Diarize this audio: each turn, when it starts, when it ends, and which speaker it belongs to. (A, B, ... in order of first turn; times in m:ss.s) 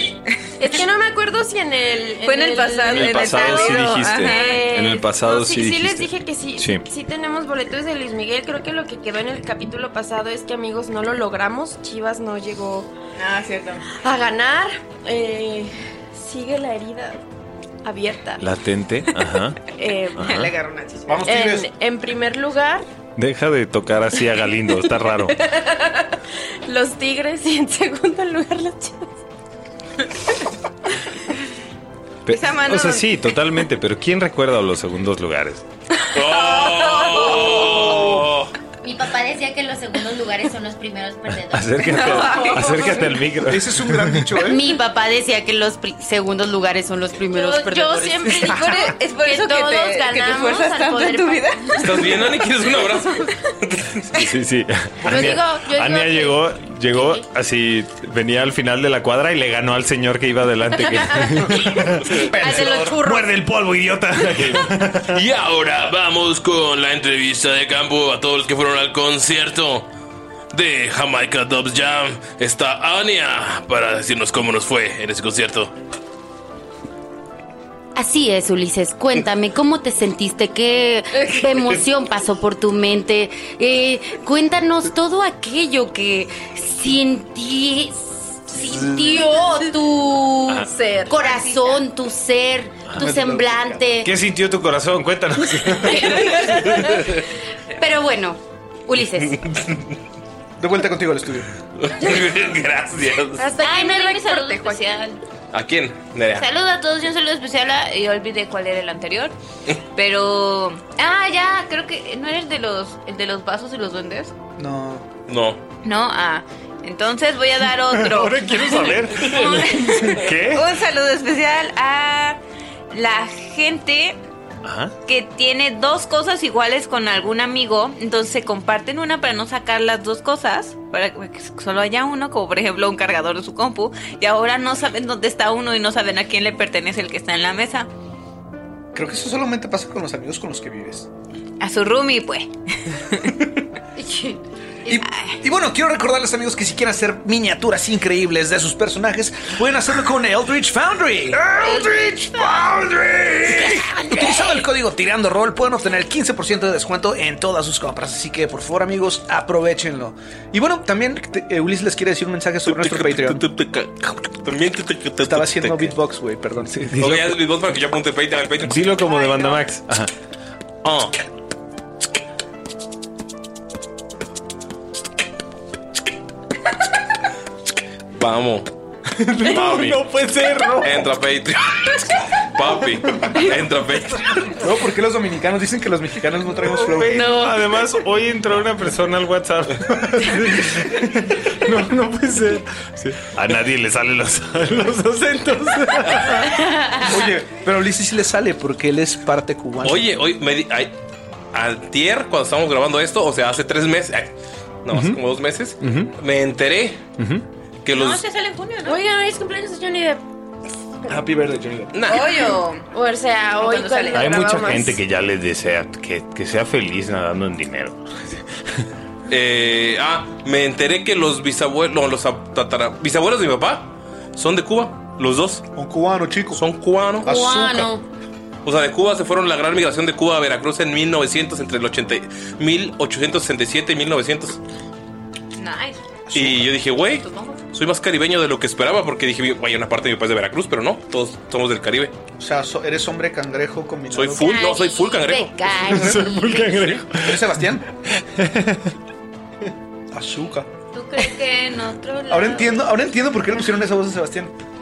0:00.6-0:12.9 A
0:02.2-0:04.6 B
0:02.9-0:06.9 C
0:13.2-0:13.8 B
0:13.9-0:17.2 A
0:17.8-0:18.5 A
0:18.4-0:19.6 C
0:19.1-0:20.2 A
0:20.2-0:21.2 B
0:20.2-0:20.5 C
0:21.1-0:21.7 D
0:21.2-0:22.9 A
0:23.2-0:25.4 C
0:24.2-0:26.1 A
0:26.6-0:29.1 A
0:32.2-0:35.6 C
0:32.3-0:33.4 B
0:36.1-0:38.5 E
0:38.8-0:42.6 F
0:41.4-0:44.3 C
0:41.9-0:43.0 B
0:43.4-0:44.7 D
0:44.3-0:48.6 F
0:47.3-0:52.0 B
0:47.7-0:48.7 A
0:49.2-0:53.2 A
0:51.8-0:54.0 E
0:54.1-1:05.2 C
0:55.5-0:56.4 F
1:01.4-1:03.0 D
1:05.1-1:09.9 E
1:10.5-1:15.7 E
1:17.9-1:34.1 F
1:30.6-1:31.4 A
1:32.9-1:33.8 D
1:34.0-1:36.4 C
1:37.8-1:39.4 F
1:39.3-1:39.8 E
1:40.6-1:41.4 D
1:41.8-1:43.5 E
1:43.4-1:45.0 A
1:43.6-1:45.0 F
1:43.6-1:45.1 B
1:45.5-1:46.4 E
1:46.4-1:48.6 F
1:47.6-1:49.3 B
1:49.9-1:54.3 B
1:51.0-1:52.5 F
1:54.6-1:55.1 D
1:55.3-1:55.6 E
1:55.8-2:02.4 B
1:57.9-2:00.7 C
2:02.9-2:04.2 B
2:04.6-2:04.9 C
2:05.0-2:17.9 B
2:18.9-2:21.1 D
2:21.6-2:23.4 B
2:24.9-2:43.5 D
2:25.0-2:25.4 B
2:33.5-2:34.5 F
2:42.6-2:46.0 E
2:45.2-2:46.9 D
2:46.7-2:47.4 C
2:47.0-2:48.9 E
2:48.6-2:50.1 C
2:50.8-2:51.2 E
2:58.2-2:58.7 E
2:59.1-3:01.1 C
2:59.4-3:00.0 E
3:00.8-3:04.5 E
3:04.6-3:07.5 D
3:06.6-3:16.5 C
3:17.0-3:20.1 D
3:19.8-3:20.9 E
3:21.5-3:24.3 E
3:24.8-3:27.0 E
3:24.9-3:25.2 C
3:25.8-3:26.1 C
3:27.2-3:27.4 C
3:27.8-3:28.2 E
3:27.9-3:29.0 B
3:28.8-3:30.2 A
3:31.1-3:32.1 D
3:31.9-3:32.4 E
3:32.0-3:32.8 B
3:32.9-3:35.0 A
3:33.6-3:34.3 B
3:34.1-3:38.4 C
3:39.3-3:45.6 E
3:45.7-3:46.6 D
3:46.5-3:47.3 E
3:47.2-3:48.0 D
3:47.3-3:47.8 F
3:48.6-3:54.6 E
3:55.6-3:56.0 B
3:56.3-3:56.8 D
3:56.3-4:02.1 E
3:57.3-3:57.6 B
4:02.4-4:04.6 D
4:04.1-4:06.2 E
4:04.4-4:07.0 F
4:05.8-4:07.5 C
4:07.1-4:07.8 D
4:08.2-4:08.9 C
4:10.1-4:10.7 D
4:11.0-4:12.9 B
4:12.3-4:14.5 D